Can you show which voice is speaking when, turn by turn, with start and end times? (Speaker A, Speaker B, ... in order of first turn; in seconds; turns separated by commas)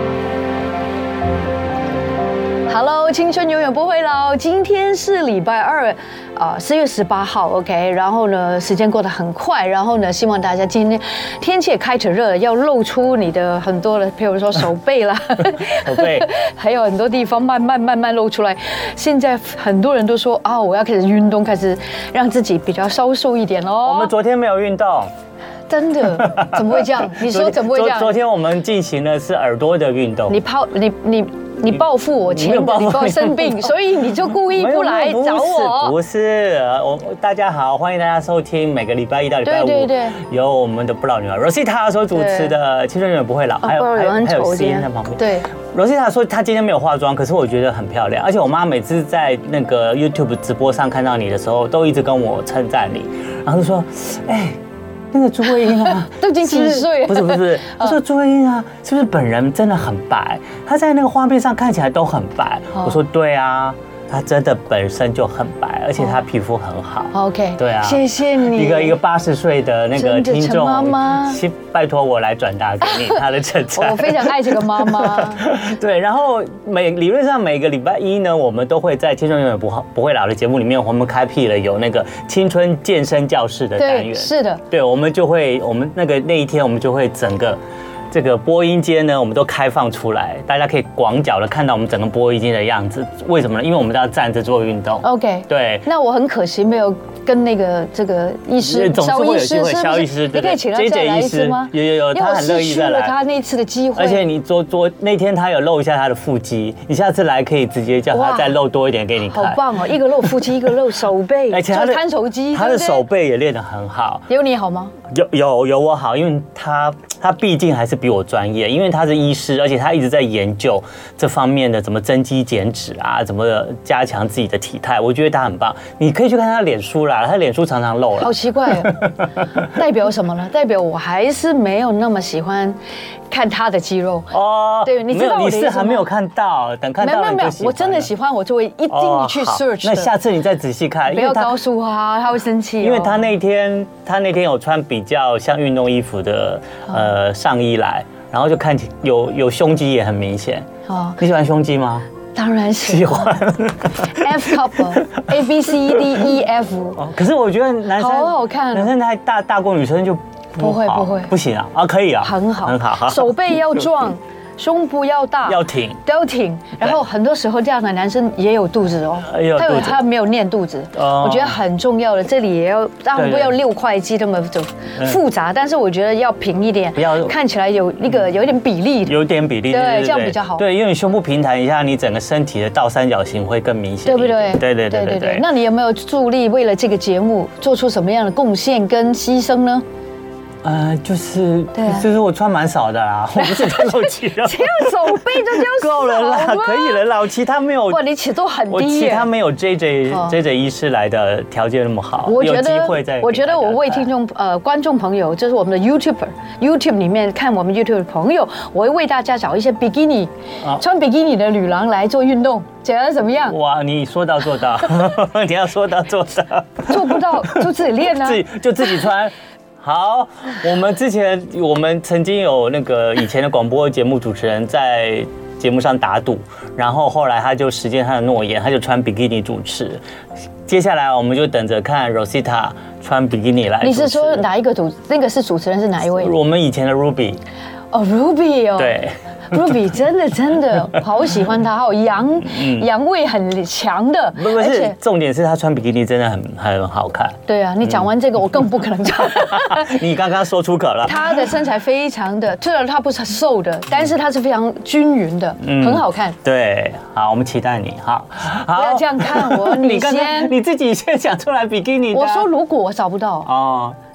Speaker A: 2.7-24.1, Speaker B: 15.7-16.3, Speaker B: 23.8-25.1, Speaker A: 25.7-28.1, Speaker B: 26.2-30.4, Speaker A: 30.3-35.9, Speaker B: 32.3-45.2, Speaker A: 39.4-40.2, Speaker A: 42.1-42.5, Speaker A: 43.6-45.5, Speaker B: 45.7-54.6, Speaker B: 55.1-87.6, Speaker A: 56.1-58.0, Speaker A: 67.1-69.0, Speaker A: 70.0-71.4, Speaker A: 72.9-73.2, Speaker A: 73.7-75.5, Speaker A: 83.8-84.6, Speaker B: 88.1-95.8, Speaker A: 95.0-104.2, Speaker B: 98.6-103.1, Speaker B: 104.0-109.6, Speaker A: 108.1-108.5, Speaker A: 109.3-113.0, Speaker B: 111.5-114.3, Speaker A: 114.3-114.9, Speaker B: 115.1-129.1, Speaker A: 128.2-129.0, Speaker A: 129.7-132.8, Speaker A: 133.3-134.3, Speaker B: 134.3-138.1, Speaker A: 134.8-136.1, Speaker A: 137.0-140.1, Speaker B: 138.9-141.6, Speaker A: 141.1-143.3, Speaker B: 142.8-150.7, Speaker A: 150.9-151.2, Speaker B: 151.2-152.1, Speaker A: 152.3-153.4, Speaker B: 152.8-155.3, Speaker A: 154.0-157.0, Speaker B: 157.0-163.3, Speaker A: 158.0-158.9, Speaker A: 160.6-161.3, Speaker A: 162.2-179.2, Speaker B: 165.5-166.0, Speaker B: 169.3-170.0, Speaker B: 170.9-171.6, Speaker B: 173.1-173.6, Speaker B: 176.9-177.3, Speaker B: 179.1-185.4, Speaker A: 179.7-180.6, Speaker A: 184.1-189.8, Speaker B: 190.6-198.0, Speaker A: 191.7-192.0, Speaker A: 193.4-197.0, Speaker A: 197.9-199.3, Speaker B: 198.7-204.1, Speaker A: 200.1-200.3, Speaker A: 202.2-213.5, Speaker B: 213.4-217.6, Speaker A: 216.9-218.4, Speaker B: 218.2-230.0, Speaker B: 230.7-234.4, Speaker A: 233.8-236.3, Speaker B: 236.1-237.4, Speaker A: 237.9-239.0, Speaker B: 238.8-239.7, Speaker A: 239.5-244.9, Speaker B: 242.4-242.9, Speaker B: 244.3-248.1, Speaker A: 247.5-250.0, Speaker B: 249.3-251.4, Speaker A: 251.0-256.4, Speaker B: 255.6-262.5, Speaker A: 258.7-260.5, Speaker A: 262.1-263.5, Speaker B: 263.4-263.9